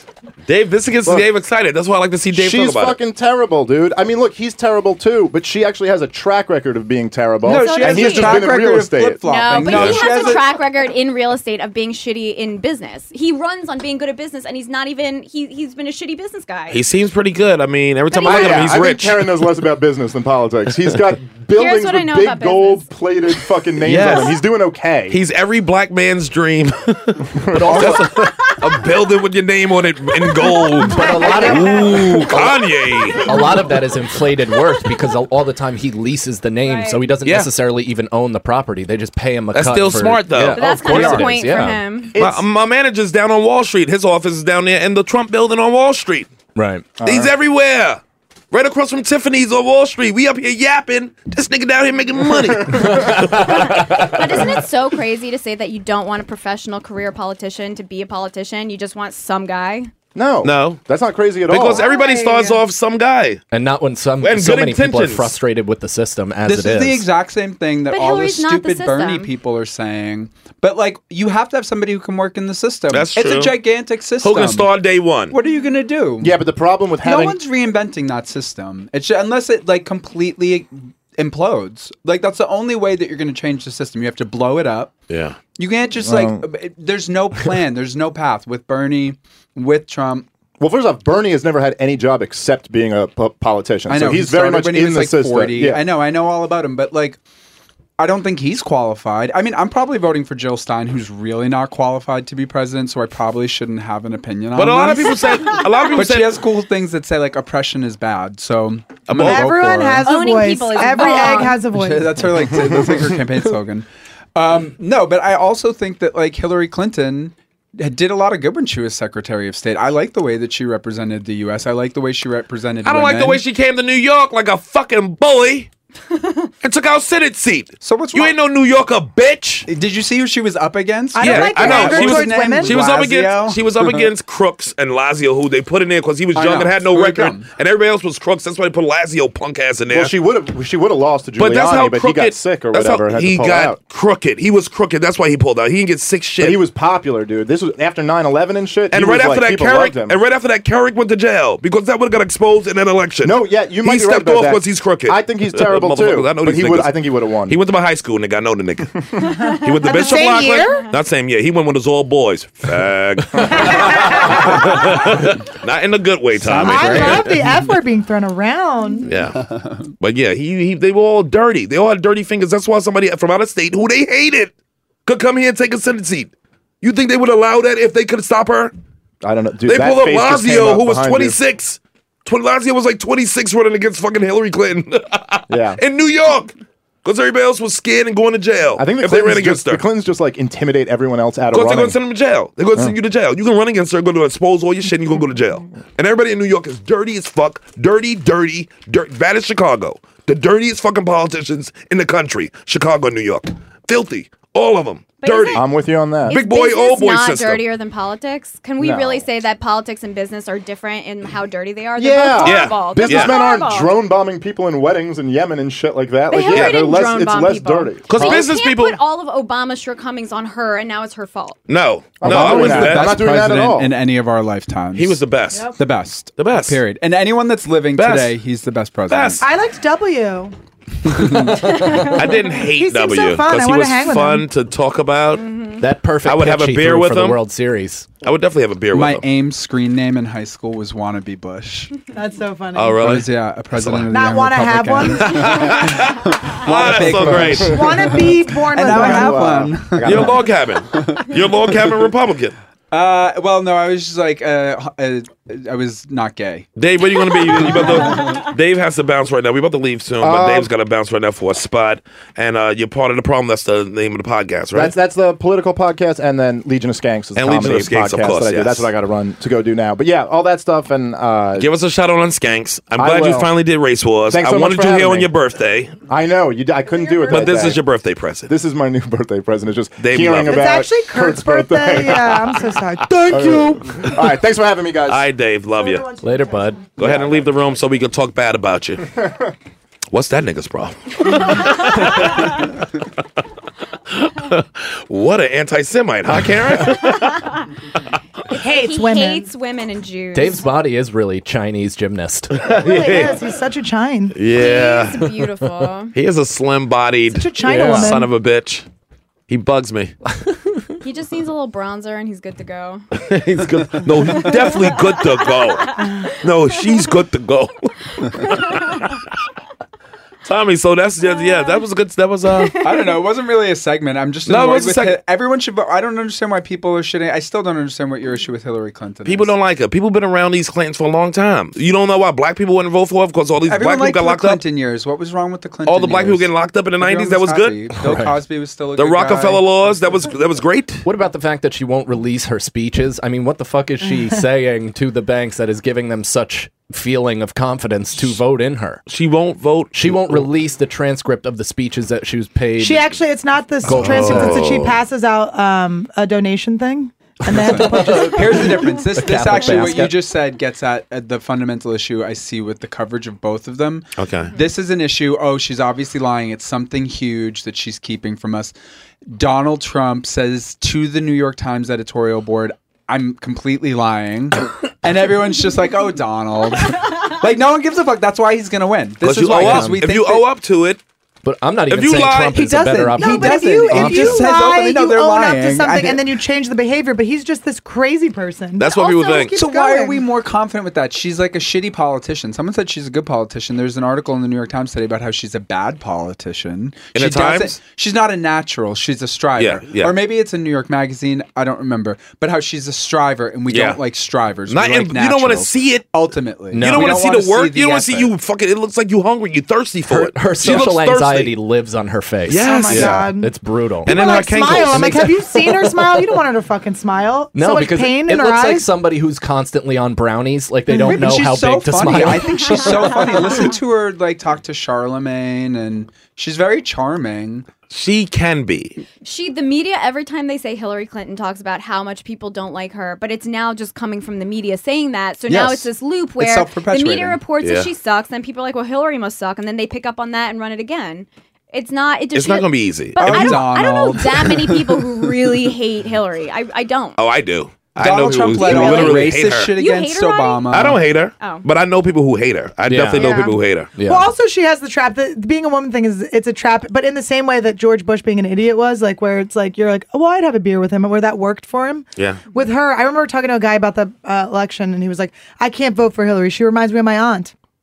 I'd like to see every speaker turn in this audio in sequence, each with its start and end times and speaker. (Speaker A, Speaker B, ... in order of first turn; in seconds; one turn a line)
Speaker A: 0.5-3.0
Speaker B: 2.3-9.2
Speaker C: 7.5-10.6
Speaker D: 7.5-8.6
Speaker D: 9.2-16.9
Speaker A: 9.6-10.1
Speaker A: 16.7-19.3
Speaker D: 18.1-18.8
Speaker B: 18.2-25.2
Speaker D: 21.5-22.9
Speaker A: 23.8-24.4
Speaker A: 25.1-33.3
Speaker B: 27.5-27.9
Speaker E: 27.5-28.1
Speaker D: 28.2-28.9
Speaker D: 30.2-33.5
Speaker E: 30.9-32.6
Speaker E: 33.2-41.9
Speaker D: 34.5-34.9
Speaker D: 36.6-37.1
Speaker A: 37.2-37.5
Speaker A: 39.5-40.8
Speaker D: 40.5-42.2
Speaker C: 40.7-41.4
Speaker B: 42.1-42.4
Speaker A: 42.2-46.3
Speaker E: 46.6-47.0
Speaker B: 47.0-47.3
Speaker A: 47.0-53.6
Speaker B: 52.5-53.0
Speaker E: 52.9-54.2
Speaker D: 53.3-59.9
Speaker B: 60.1-61.9
Speaker A: 60.4-60.8
Speaker A: 61.5-63.4
Speaker D: 61.7-62.6
Speaker E: 63.5-67.1
Speaker A: 64.2-65.3
Speaker C: 66.5-74.7
Speaker D: 67.9-69.3
Speaker A: 72.9-73.6
Speaker A: 74.2-75.4
Speaker C: 75.3-76.4
Speaker B: 76.2-77.4
Speaker C: 77.0-84.9
Speaker A: 85.1-85.4
Speaker C: 85.6-90.3
Speaker B: 86.0-86.5
Speaker B: 90.6-95.8
Speaker C: 93.9-97.2
Speaker C: 98.0-105.2
Speaker A: 104.5-106.4
Speaker D: 105.2-106.1
Speaker C: 105.9-110.1
Speaker A: 109.1-109.6
Speaker F: 109.2-112.3
Speaker D: 110.0-111.6
Speaker C: 111.7-123.4
Speaker A: 122.8-125.7
Speaker A: 126.6-129.7
Speaker C: 127.8-128.3
Speaker C: 129.7-134.1
Speaker F: 131.1-132.8
Speaker A: 131.2-140.1
Speaker C: 136.3-137.5
Speaker B: 139.9-143.8
Speaker A: 141.4-146.6
Speaker B: 146.4-150.2
Speaker A: 148.9-167.4
Speaker B: 153.2-157.6
Speaker D: 159.5-160.8
Speaker F: 159.8-160.9
Speaker F: 163.5-164.2
Speaker C: 166.4-167.5
Speaker F: 166.5-169.1
Speaker A: 169.1-169.4
Speaker C: 169.3-169.9
Speaker A: 170.0-174.5
Speaker A: 175.1-178.7
Speaker B: 179.2-181.4
Speaker A: 179.7-189.8
Speaker B: 185.5-185.8
Speaker B: 188.8-192.0
Speaker A: 191.5-205.6
Speaker D: 205.2-205.7
Speaker B: 205.5-206.3
Speaker D: 206.2-214.0
Speaker A: 206.3-207.7
Speaker B: 208.8-209.2
Speaker B: 212.0-218.4
Speaker A: 212.4-213.4
Speaker D: 216.3-221.6
Speaker A: 216.4-216.8
Speaker A: 218.1-219.0
Speaker A: 221.7-223.2
Speaker B: 222.2-223.9
Speaker C: 222.2-229.4
Speaker A: 224.9-225.7
Speaker A: 226.4-226.8
Speaker A: 227.9-228.4
Speaker A: 229.1-229.4
Speaker F: 229.4-230.5
Speaker C: 231.1-231.6
Speaker F: 231.4-232.1
Speaker D: 231.8-232.4
Speaker A: 232.1-235.5
Speaker F: 232.7-234.5
Speaker D: 235.4-235.8
Speaker E: 235.8-238.1
Speaker A: 236.2-237.4
Speaker A: 238.2-239.2
Speaker C: 238.9-241.9
Speaker F: 242.1-243.1
Speaker A: 242.7-244.1
Speaker C: 243.0-250.4
Speaker F: 244.1-246.0
Speaker A: 245.2-247.9
Speaker F: 247.6-249.7
Speaker B: 248.8-250.4
Speaker A: 250.0-252.6
Speaker C: 250.9-251.3
Speaker C: 252.9-256.7
Speaker A: 256.8-264.9
Speaker D: 257.3-258.4
Speaker B: 260.2-260.7
Speaker B: 264.7-271.7
Speaker A: 267.4-268.9
Speaker A: 271.6-275.9
Speaker B: 273.0-273.5
Speaker B: 274.3-275.3
Speaker B: 276.1-277.8
Speaker F: 277.0-277.4
Speaker A: 277.3-278.5
Speaker B: 278.5-282.5
Speaker A: 280.0-280.8
Speaker F: 280.5-284.1
Speaker A: 283.1-283.5
Speaker B: 283.3-285.3
Speaker A: 285.1-286.1
Speaker F: 285.8-286.8
Speaker E: 286.2-286.9
Speaker A: 287.0-289.1
Speaker B: 287.0-287.4
Speaker B: 289.2-289.5
Speaker A: 290.1-292.6
Speaker D: 291.5-291.9
Speaker A: 294.1-297.4
Speaker D: 298.5-300.7
Speaker F: 298.5-299.5
Speaker E: 300.3-302.6
Speaker A: 302.5-303.4
Speaker F: 302.6-304.4
Speaker A: 304.4-305.4
Speaker D: 304.5-306.1
Speaker A: 306.1-308.9
Speaker F: 307.4-308.3
Speaker E: 307.6-308.2
Speaker A: 309.5-310.1
Speaker D: 311.0-313.0
Speaker A: 313.2-319.0
Speaker D: 314.3-316.3
Speaker D: 318.4-319.1
Speaker A: 320.4-322.8
Speaker D: 321.3-321.8
Speaker D: 322.5-323.2
Speaker C: 322.8-329.5
Speaker A: 324.5-325.2
Speaker A: 329.2-334.6
Speaker C: 333.7-339.6
Speaker A: 335.9-337.9
Speaker E: 338.0-338.4
Speaker A: 338.9-341.1
Speaker E: 341.0-349.0
Speaker A: 349.1-350.5
Speaker E: 349.9-353.1
Speaker F: 352.8-359.0
Speaker E: 353.8-354.9
Speaker A: 353.9-355.0
Speaker E: 357.4-360.2
Speaker C: 357.6-368.7
Speaker A: 364.2-364.5
Speaker C: 369.3-380.5
Speaker A: 379.2-381.0
Speaker E: 379.4-380.1
Speaker E: 381.4-384.5
Speaker A: 381.9-382.7
Speaker C: 382.5-386.3
Speaker F: 382.7-390.2
Speaker A: 388.8-389.6
Speaker C: 389.6-408.3
Speaker A: 397.1-397.8
Speaker A: 399.6-400.2
Speaker A: 403.7-404.0
Speaker A: 404.7-406.2
Speaker E: 406.7-407.2
Speaker A: 406.7-411.5
Speaker E: 410.1-416.4
Speaker A: 412.5-413.3
Speaker F: 412.5-418.9
Speaker A: 414.1-415.3
Speaker E: 417.5-423.3
Speaker C: 420.9-427.7
Speaker F: 420.9-421.3
Speaker D: 422.4-423.7
Speaker A: 427.9-429.0
Speaker D: 429.2-447.2
Speaker C: 435.5-437.4
Speaker A: 437.6-437.9
Speaker A: 442.3-443.6
Speaker C: 443.2-445.6
Speaker A: 447.2-449.7
Speaker C: 447.9-451.0
Speaker D: 448.6-451.6
Speaker A: 450.7-453.9
Speaker E: 452.9-454.3
Speaker F: 453.2-467.5